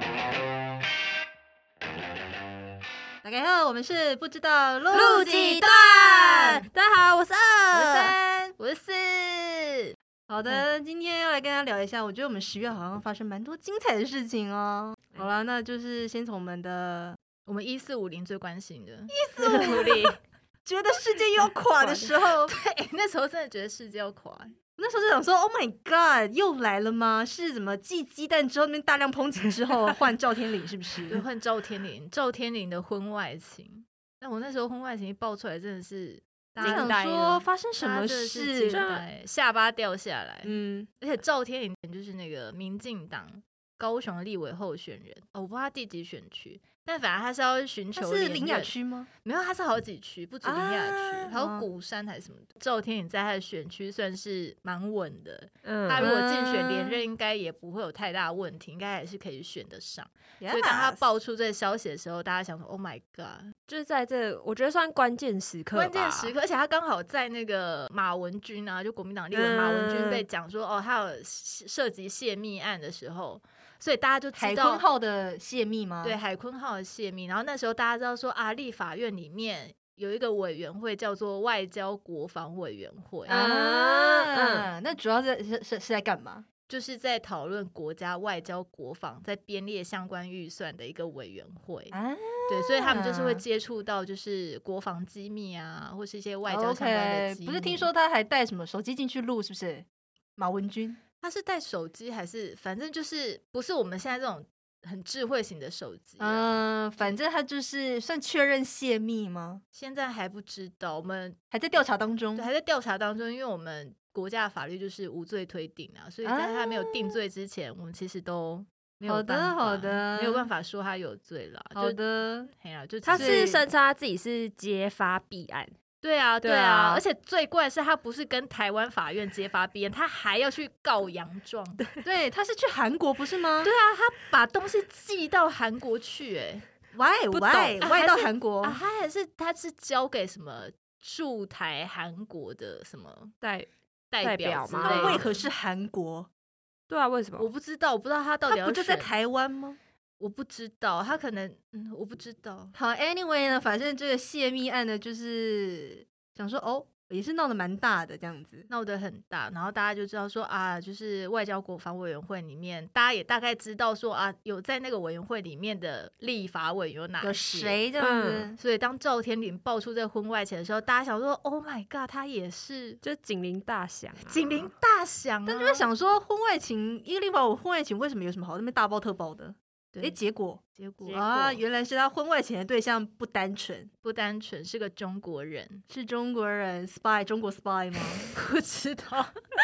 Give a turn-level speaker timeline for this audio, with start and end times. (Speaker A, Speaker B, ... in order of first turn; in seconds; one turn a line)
Speaker A: 3.2-6.6
Speaker B: 4.9-8.0
Speaker C: 5.0-6.6
Speaker A: 7.7-8.6
Speaker C: 7.7-9.9
Speaker A: 10.3-17.2
Speaker C: 17.4-19.9
Speaker A: 19.1-20.1
Speaker B: 19.4-20.2
Speaker A: 20.6-22.5
Speaker B: 21.8-22.2
Speaker C: 22.5-24.5
Speaker A: 24.8-31.2
Speaker C: 31.1-36.9
Speaker B: 36.6-37.5
Speaker A: 36.6-38.8
Speaker C: 37.8-63.5
Speaker B: 38.7-39.0
Speaker B: 40.4-40.9
Speaker A: 48.0-49.1
Speaker A: 50.4-51.7
Speaker B: 55.6-56.1
Speaker A: 56.0-57.0
Speaker A: 60.4-61.0
Speaker B: 63.7-66.3
Speaker C: 65.7-74.9
Speaker B: 69.3-70.2
Speaker A: 74.3-76.2
Speaker C: 76.0-83.4
Speaker B: 83.3-84.7
Speaker A: 83.3-86.5
Speaker C: 86.7-92.0
Speaker A: 91.9-93.4
Speaker C: 92.5-97.9
Speaker A: 96.5-101.0
Speaker C: 101.2-107.2
Speaker A: 106.2-109.6
Speaker C: 109.7-111.4
Speaker A: 111.5-112.5
Speaker C: 112.3-123.6
Speaker A: 116.2-117.2
Speaker A: 119.1-120.5
Speaker A: 121.8-122.5
Speaker B: 123.0-125.7
Speaker A: 123.1-123.6
Speaker C: 126.0-131.8
Speaker B: 126.4-127.0
Speaker A: 132.0-133.7
Speaker C: 133.6-136.7
Speaker A: 136.9-138.8
Speaker B: 137.3-137.8
Speaker C: 137.8-143.3
Speaker B: 143.4-145.3
Speaker C: 144.1-145.4
Speaker A: 144.8-146.3
Speaker B: 146.9-147.5
Speaker C: 147.4-149.1
Speaker A: 148.5-149.8
Speaker C: 150.2-152.7
Speaker A: 152.7-158.7
Speaker C: 158.7-167.8
Speaker A: 167.2-168.6
Speaker B: 168.0-168.5
Speaker C: 168.6-173.0
Speaker B: 173.0-174.7
Speaker C: 174.3-175.9
Speaker A: 175.5-183.9
Speaker C: 180.8-181.5
Speaker B: 181.1-181.6
Speaker C: 184.0-185.8
Speaker A: 185.9-188.3
Speaker C: 188.3-189.4